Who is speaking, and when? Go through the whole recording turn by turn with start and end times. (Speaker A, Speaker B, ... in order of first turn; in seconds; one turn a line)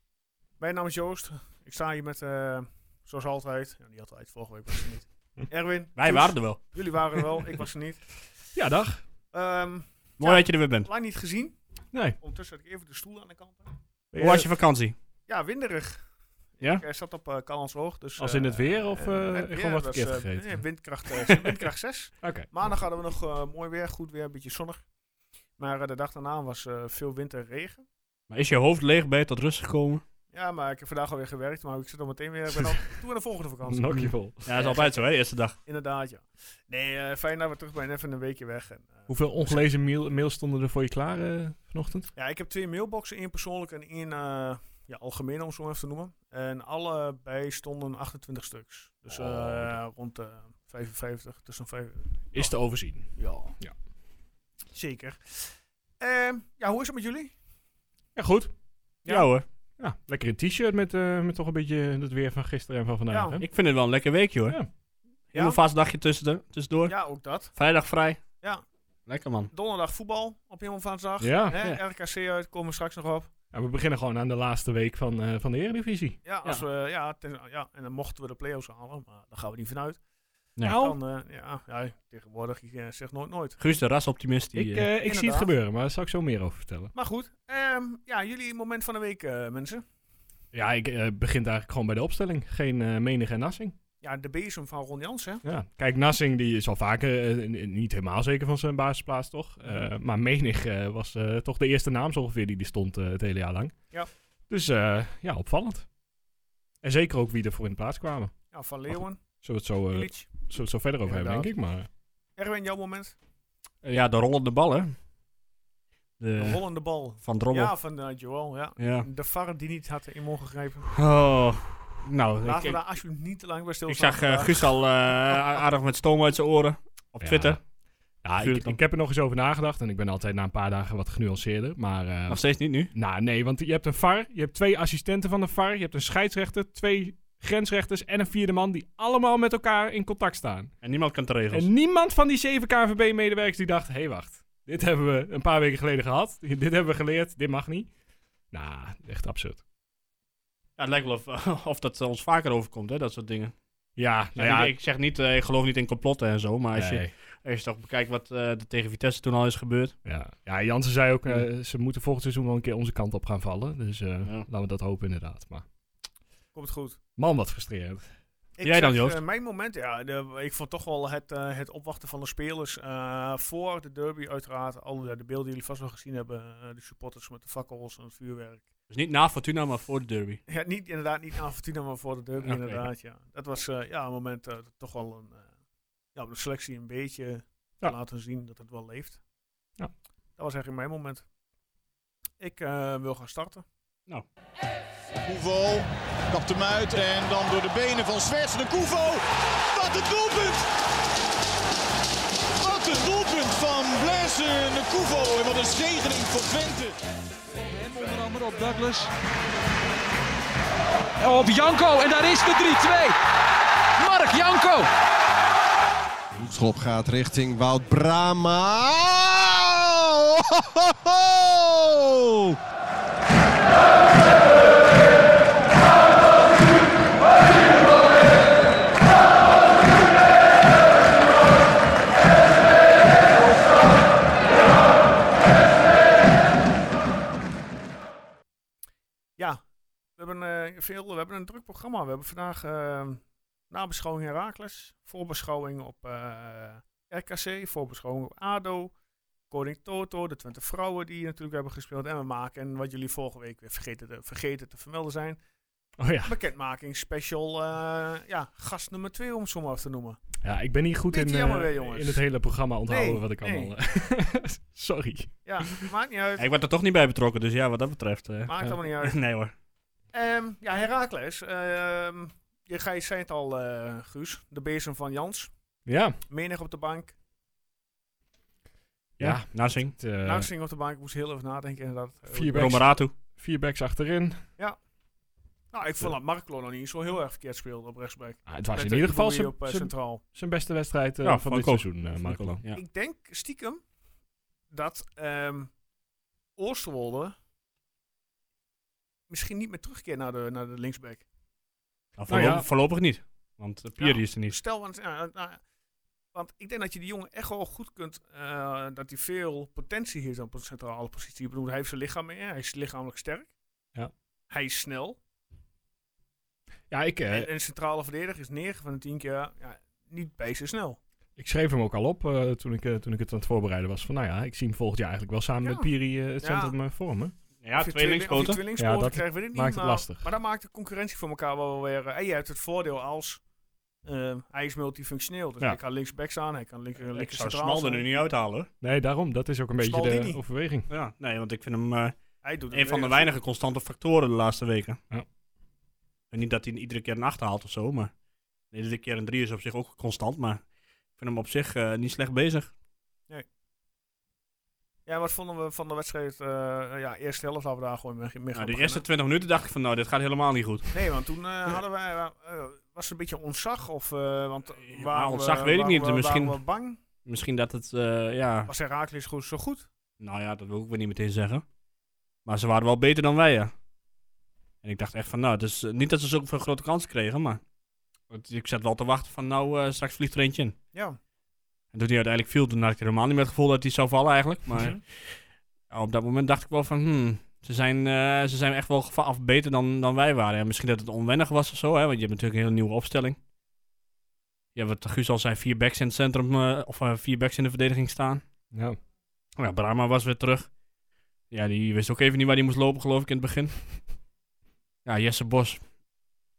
Speaker A: 0.6-8.0
Speaker B: 6.0-7.2
Speaker C: 8.5-9.0
Speaker A: 9.3-11.6
Speaker B: 10.2-10.9
Speaker A: 12.2-13.7
Speaker C: 14.1-14.5
Speaker B: 14.2-14.9
Speaker A: 15.3-16.0
Speaker A: 16.6-24.8
Speaker C: 18.2-20.6
Speaker C: 22.2-22.5
Speaker A: 25.6-27.8
Speaker B: 28.3-30.0
Speaker A: 30.3-35.1
Speaker C: 33.6-34.4
Speaker B: 34.5-35.5
Speaker A: 35.6-39.7
Speaker C: 39.1-42.1
Speaker A: 42.1-52.5
Speaker C: 49.1-49.6
Speaker C: 52.3-53.7
Speaker A: 53.1-53.5
Speaker A: 54.7-57.3
Speaker C: 58.1-58.5
Speaker B: 59.1-59.4
Speaker C: 59.8-63.5
Speaker A: 63.1-63.4
Speaker B: 63.4-64.6
Speaker B: 65.3-67.0
Speaker A: 66.9-67.5
Speaker B: 67.5-68.2
Speaker B: 69.1-69.5
Speaker A: 69.5-73.3
Speaker C: 71.2-71.6
Speaker C: 73.5-76.2
Speaker A: 76.2-80.0
Speaker C: 80.6-80.9
Speaker A: 80.7-83.6
Speaker B: 83.6-84.9
Speaker C: 84.5-86.9
Speaker A: 85.0-85.5
Speaker A: 86.9-89.8
Speaker C: 90.5-93.8
Speaker A: 94.0-95.4
Speaker C: 95.4-103.7
Speaker C: 104.5-105.9
Speaker C: 106.8-108.3
Speaker A: 108.5-109.2
Speaker C: 108.9-111.9
Speaker A: 109.9-110.3
Speaker A: 111.0-111.5
Speaker A: 112.4-113.2
Speaker B: 113.8-114.9
Speaker B: 116.2-117.7
Speaker A: 116.4-120.9
Speaker B: 118.8-119.1
Speaker B: 120.9-122.8
Speaker A: 122.4-124.7
Speaker B: 123.9-127.6
Speaker C: 127.2-127.6
Speaker C: 128.2-132.4
Speaker B: 128.4-128.8
Speaker B: 132.3-132.9
Speaker C: 132.9-140.7
Speaker B: 140.8-141.7
Speaker C: 141.5-147.9
Speaker C: 148.5-149.6
Speaker B: 150.8-153.5
Speaker C: 154.0-154.7
Speaker B: 154.4-159.9
Speaker C: 156.7-157.1
Speaker C: 160.0-165.7
Speaker A: 166.5-167.0
Speaker C: 167.2-168.1
Speaker A: 168.6-178.6
Speaker B: 168.6-169.2
Speaker B: 178.9-180.4
Speaker A: 180.5-185.5
Speaker B: 182.4-182.8
Speaker A: 186.1-189.2
Speaker A: 190.4-191.2
Speaker A: 192.4-193.6
Speaker D: 195.2-200.7
Speaker D: 202.6-207.0
Speaker E: 207.7-209.1
Speaker E: 211.2-213.2
Speaker E: 214.0-214.9
Speaker F: 216.5-221.2
Speaker A: 240.2-248.9
Speaker A: 249.5-255.4
Speaker C: 256.0-256.3
Speaker A: 256.2-260.2
Speaker C: 260.4-265.9
Speaker A: 261.1-262.2
Speaker A: 262.9-263.7
Speaker A: 265.4-266.4
Speaker B: 266.4-269.5
Speaker A: 268.4-269.2
Speaker A: 270.1-275.5
Speaker C: 275.9-276.2
Speaker A: 276.3-277.1
Speaker B: 279.2-279.9
Speaker C: 279.2-280.5
Speaker A: 280.2-282.8
Speaker C: 282.3-284.4
Speaker B: 282.5-283.1
Speaker A: 285.7-290.2
Speaker C: 288.4-292.6
Speaker B: 291.2-292.8
Speaker A: 292.7-293.8
Speaker A: 294.7-295.7
Speaker A: 296.6-297.3
Speaker A: 299.3-301.2
Speaker B: 302.2-304.6
Speaker C: 302.3-302.7
Speaker A: 304.0-305.6
Speaker A: 306.3-313.5
Speaker A: 314.5-315.2
Speaker C: 316.9-317.5
Speaker A: 317.3-321.0
Speaker C: 321.4-327.3
Speaker A: 325.6-325.9
Speaker A: 326.4-326.7
Speaker B: 327.6-328.6
Speaker A: 327.7-333.4
Speaker C: 328.8-330.2
Speaker A: 334.0-338.0
Speaker B: 337.0-338.7
Speaker C: 338.8-340.9
Speaker A: 339.8-340.4
Speaker B: 340.9-342.1
Speaker A: 342.4-343.3
Speaker B: 342.7-345.0
Speaker B: 346.3-348.1
Speaker B: 348.7-350.6
Speaker B: 351.2-352.7
Speaker A: 355.1-359.0
Speaker B: 358.5-360.9
Speaker A: 360.9-367.0
Speaker B: 364.8-366.6
Speaker B: 367.2-368.7
Speaker A: 368.7-369.9
Speaker B: 370.2-371.6
Speaker B: 372.4-373.7
Speaker B: 374.8-377.6
Speaker B: 378.3-380.7
Speaker B: 381.9-385.3
Speaker A: 384.7-385.0
Speaker B: 385.9-393.4
Speaker B: 394.7-398.4
Speaker C: 398.7-399.0
Speaker B: 399.6-400.7
Speaker B: 401.5-403.8
Speaker B: 405.0-405.8